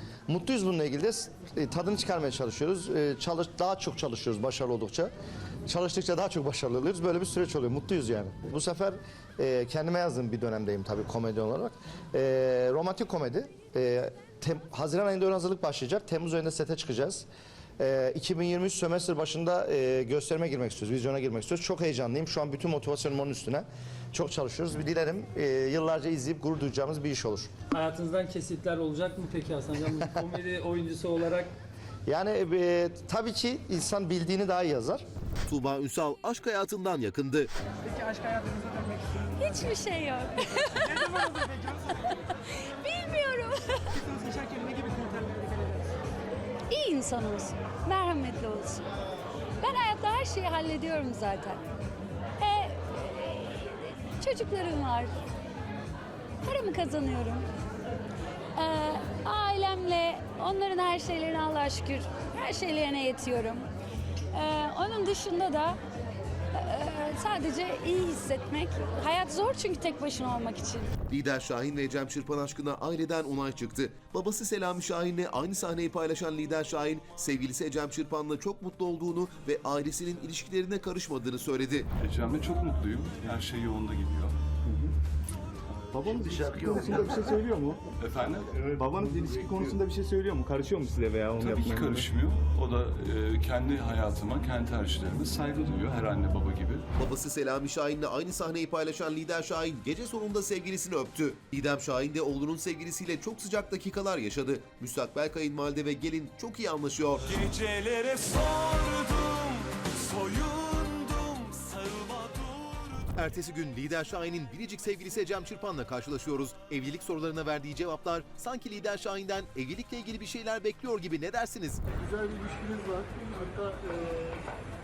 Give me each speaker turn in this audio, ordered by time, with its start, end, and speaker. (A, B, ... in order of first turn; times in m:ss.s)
0:00.3-0:05.1 A
0:05.7-0:17.3 A
0:17.8-0:27.5 A
0:27.7-0:31.5 B
0:32.1-0:35.0 A
0:35.5-0:37.5 C
0:46.7-0:48.8 D
0:49.6-0:51.6 D
0:54.2-0:55.1 D
0:56.5-0:57.4 D
0:58.6-1:03.6 D
1:04.3-1:05.8 D
1:06.8-1:10.8 D
1:11.1-1:21.9 C
1:22.0-1:24.4 E
1:25.9-1:27.8 F
1:28.0-1:28.7 E
1:28.5-1:32.1 F
1:31.4-1:36.9 E
1:37.0-1:47.3 C
1:47.4-1:48.2 G
1:50.2-1:52.0 G
1:53.2-2:01.8 C
2:02.0-2:04.4 H